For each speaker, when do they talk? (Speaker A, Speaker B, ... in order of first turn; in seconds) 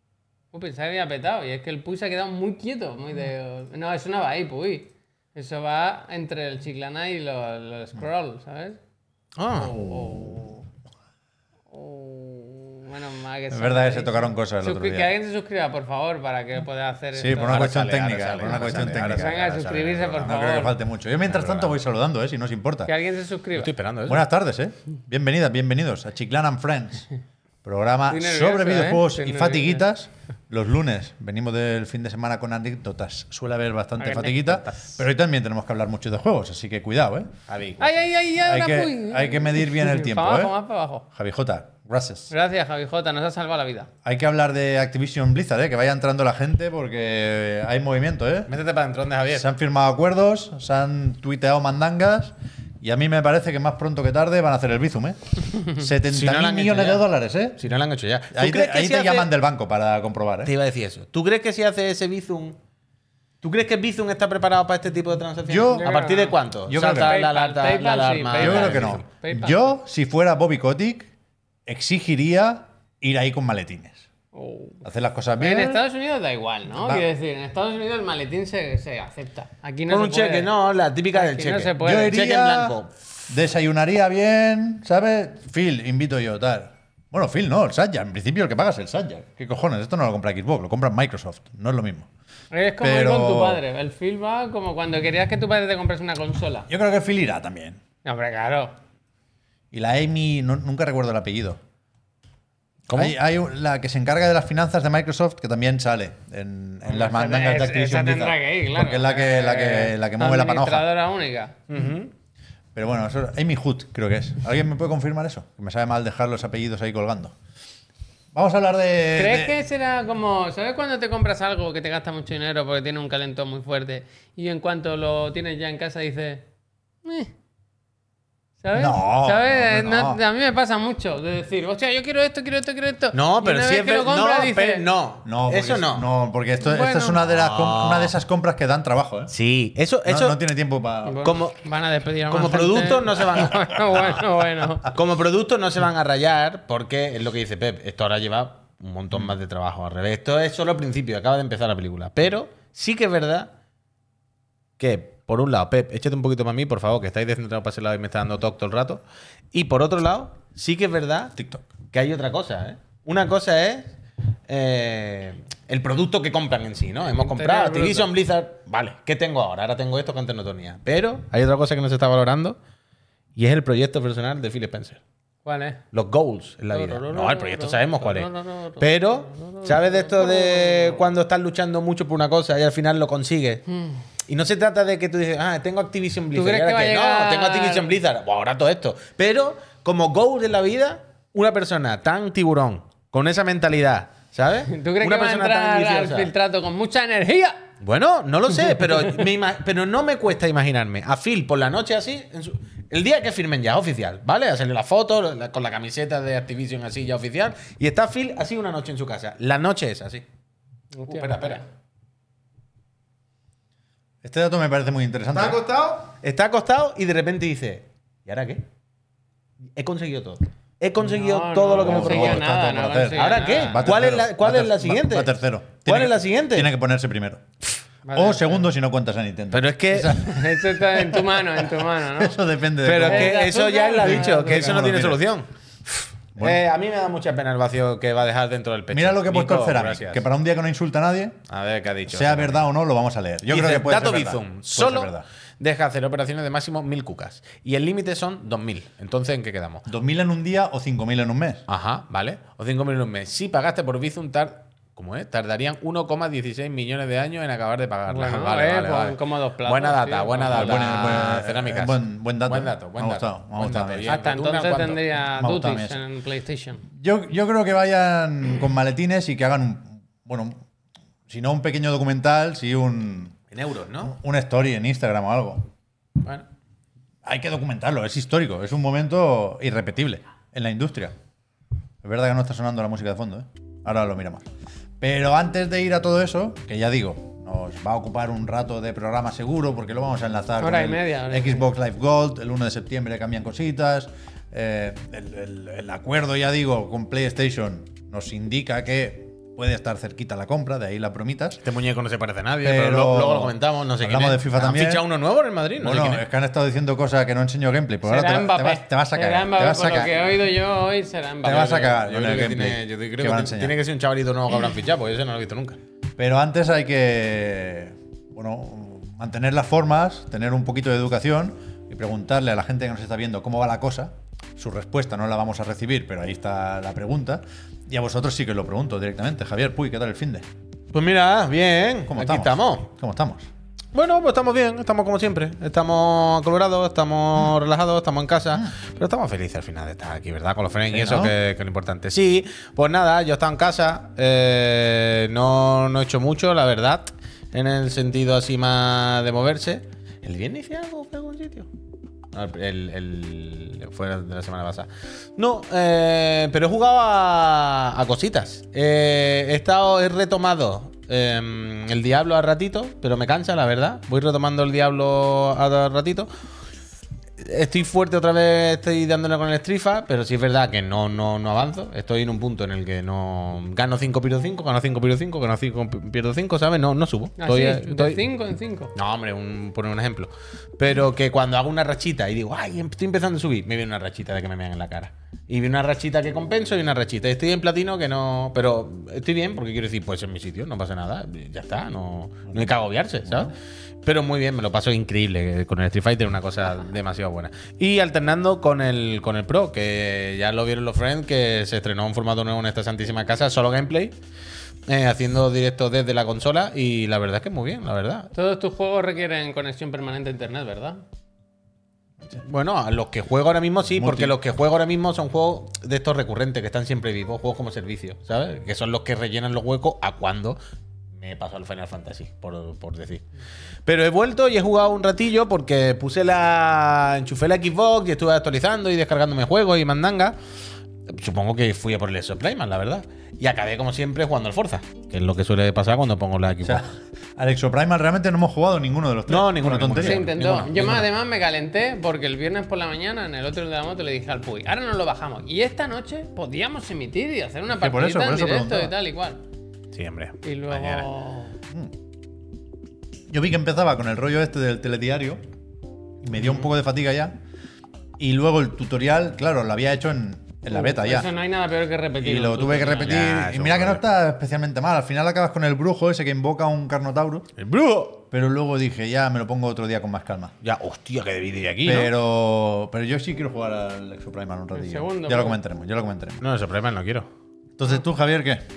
Speaker A: 0.5-8.8, 9.5-10.6, 11.7-17.8, 19.1-20.8, 22.9-23.7, 28.1-29.9, 34.0-34.8, 37.8-41.0, 42.3-43.9, 65.7-69.7, 74.3-74.8, 75.4-80.5, 81.1-82.2, 92.5-96.7, 98.0-98.7, 106.8-111.6, 119.2-126.5, 127.0-127.3, 128.6-134.9, 136.6-137.2, 141.1-144.9, 167.2-168.1, 175.4-175.8, 176.7-181.0, 183.7-184.0, 186.3-187.9, 194.7-197.7, 210.9-211.6, 221.0-223.9, 228.1-228.6, 230.1-232.4, 233.0-234.8, 258.1-261.1, 264.1-266.8, 290.6-291.7, 308.1-311.8, 377.4-378.9, 408.3-411.0, 439.9-449.4, 450.4-451.6, 460.7-463.2, 474.7-475.6
Speaker B: 9.4-9.8, 17.3-20.4, 21.2-21.8, 23.5-24.2, 37.5-38.1, 48.5-49.5, 56.1-59.3, 60.5-62.6, 63.4-69.0, 79.9-82.9, 102.9-103.2, 111.7-112.1, 133.1-136.1, 137.3-138.1, 139.3-140.4, 141.2-141.6, 142.3-144.2, 144.9-153.5, 154.8-159.0, 159.5-161.4, 161.9-163.9, 164.5-172.6, 173.4-175.0, 175.9-178.3, 178.8-183.7, 184.3-196.3, 197.8-210.2, 211.1-211.6, 215.3-218.6, 219.8-222.4, 223.1-225.3, 225.8-226.7, 229.5-230.2, 232.8-240.2, 241.5-242.7, 243.5-249.8, 251.7-265.0, 273.5-274.1, 301.6-306.2, 311.5-315.8, 330.9-332.9, 333.9-351.7, 352.3-366.3, 367.4-378.2, 378.9-393.5, 394.0-404.1, 404.9-408.3, 412.4-420.6, 421.2-423.2, 423.9-430.4, 431.1-436.9, 439.3-441.1, 449.9-451.1, 456.4-456.7, 462.9-464.0, 467.6-468.2, 470.6-472.1, 476.4-477.3
Speaker C: 9.8-10.4, 13.5-15.1, 17.1-19.4, 20.2-22.9, 24.1-27.1, 27.6-37.3, 38.4-40.5, 41.1-42.3, 44.0-48.5, 49.3-57.6, 58.3-60.5, 65.5-65.9, 66.7-67.2, 68.4-71.1, 71.7-74.1, 74.8-75.8, 76.8-77.0, 81.8-82.8, 83.3-92.1, 92.8-93.6, 96.7-97.8, 99.7-101.6, 102.9-110.9, 112.8-117.4, 118.3-119.6, 128.8-130.2, 135.2-139.3, 140.1-141.2, 161.4-161.7, 214.2-215.6, 221.7-227.4, 228.1-233.4, 234.0-235.3, 236.4-236.6, 238.9-241.4, 242.1-245.3, 249.9-251.7, 260.5-264.1, 265.1-266.0, 267.0-270.6, 271.3-273.4, 274.0-275.7, 277.2-281.1, 282.0-284.5, 285.0-301.6, 302.6-305.1, 305.8-310.2, 311.4-313.8, 316.2-330.5, 332.1-333.5, 340.9-341.4, 392.5-393.5, 413.9-414.4, 436.6-440.3, 447.7-448.9, 453.3-455.4, 456.2-457.4, 458.2-461.3, 462.2-467.5, 468.3-470.5, 471.8-476.4, 477.8-478.6